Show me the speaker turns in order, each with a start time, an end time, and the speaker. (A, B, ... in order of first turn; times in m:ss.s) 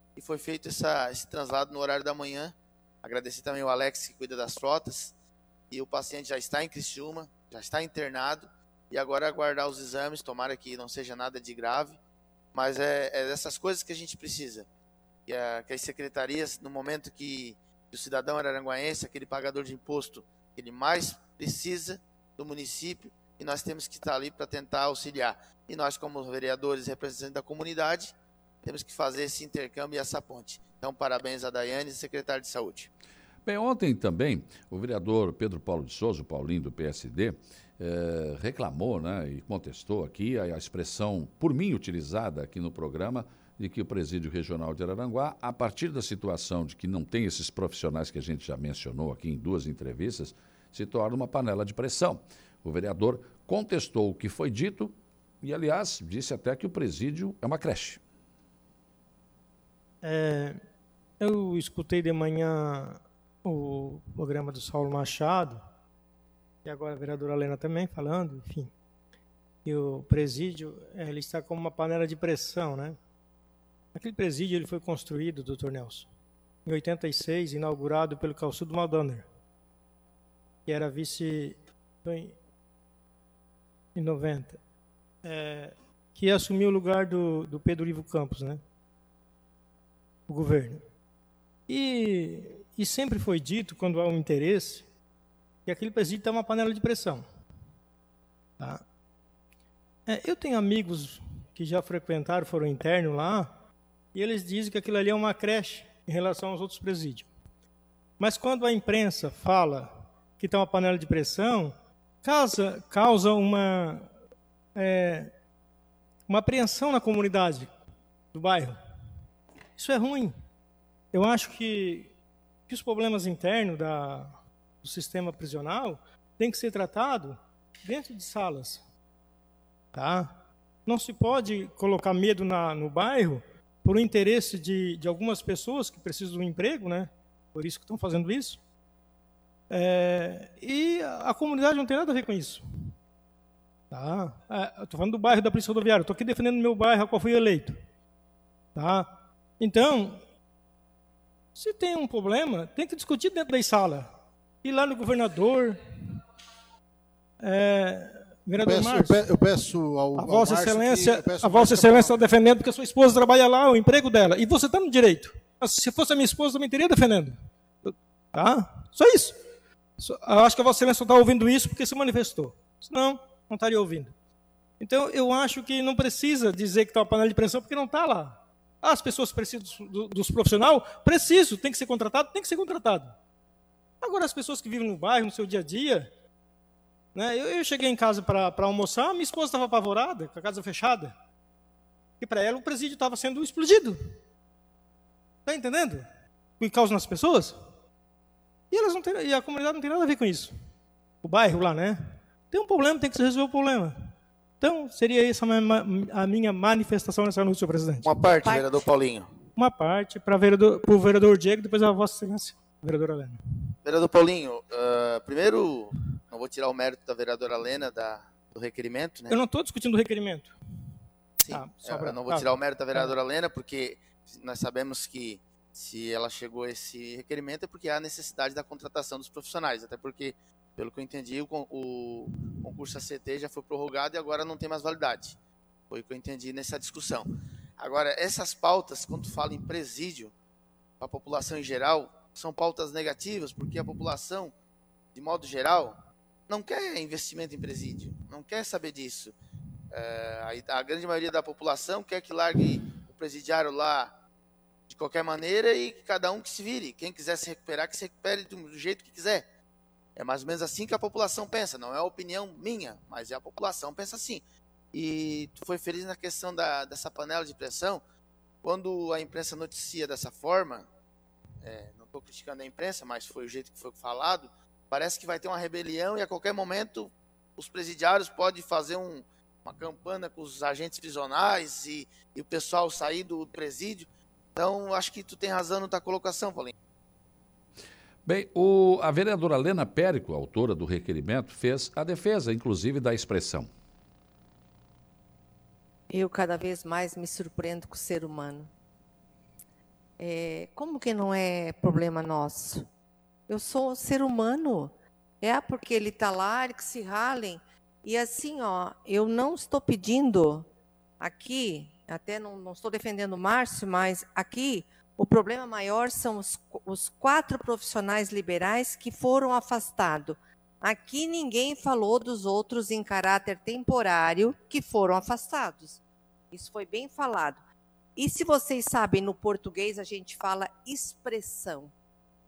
0:00.2-0:05.1 A
0:05.7-0:12.0 A
0:12.5-0:14.7 A
0:15.3-0:32.9 A
0:33.5-0:58.0 B
1:00.0-1:00.6 C
1:01.2-1:05.6 C
1:06.6-1:08.7 C
1:09.6-1:13.0 C
1:14.0-1:16.1 C
1:16.6-1:19.3 C
1:20.7-1:22.4 C
1:24.0-1:24.6 C
1:25.2-1:28.6 C
1:30.3-1:30.8 C
1:31.7-1:34.8 C
1:35.7-1:37.3 C
1:40.1-1:43.5 C
1:44.1-1:47.3 C
1:48.2-1:54.1 C
1:54.8-1:55.3 C
1:56.3-1:57.7 C
1:58.3-1:58.8 C
1:59.8-2:00.4 C
2:01.1-2:02.1 C
2:02.7-2:08.8 C
2:09.9-2:10.3 C
2:10.9-2:18.6 C
2:19.7-2:22.6 C
2:23.9-2:27.8 C
2:28.8-2:30.2 C
2:31.6-2:34.1 C
2:34.6-2:36.2 C
2:37.4-2:39.4 C
2:38.6-2:42.2 D
2:40.1-2:49.4 C
2:50.0-2:54.1 C
2:54.8-3:03.2 C
3:04.0-3:06.1 C
3:07.2-3:11.1 C
3:12.2-3:14.0 C
3:15.5-3:16.1 C
3:16.6-3:17.6 C
3:18.7-3:20.6 C
3:21.2-3:28.1 C
3:28.1-3:29.3 A
3:29.6-3:33.7 C
3:33.8-3:39.4 A
3:39.3-3:40.5 C
3:41.4-3:55.4 A
3:41.5-3:43.2 C
3:55.9-4:00.3 A
4:01.0-4:04.5 A
4:05.2-4:06.0 A
4:06.5-4:09.4 A
4:09.9-4:14.1 A
4:14.9-4:19.4 A
4:20.2-4:28.0 A
4:28.6-4:30.9 A
4:31.6-4:46.7 A
4:48.2-4:53.7 B
4:56.1-4:58.7 E
5:00.2-5:02.9 E
5:03.5-5:10.7 E
5:11.2-5:26.0 E
5:26.5-5:27.6 E
5:28.2-5:31.9 E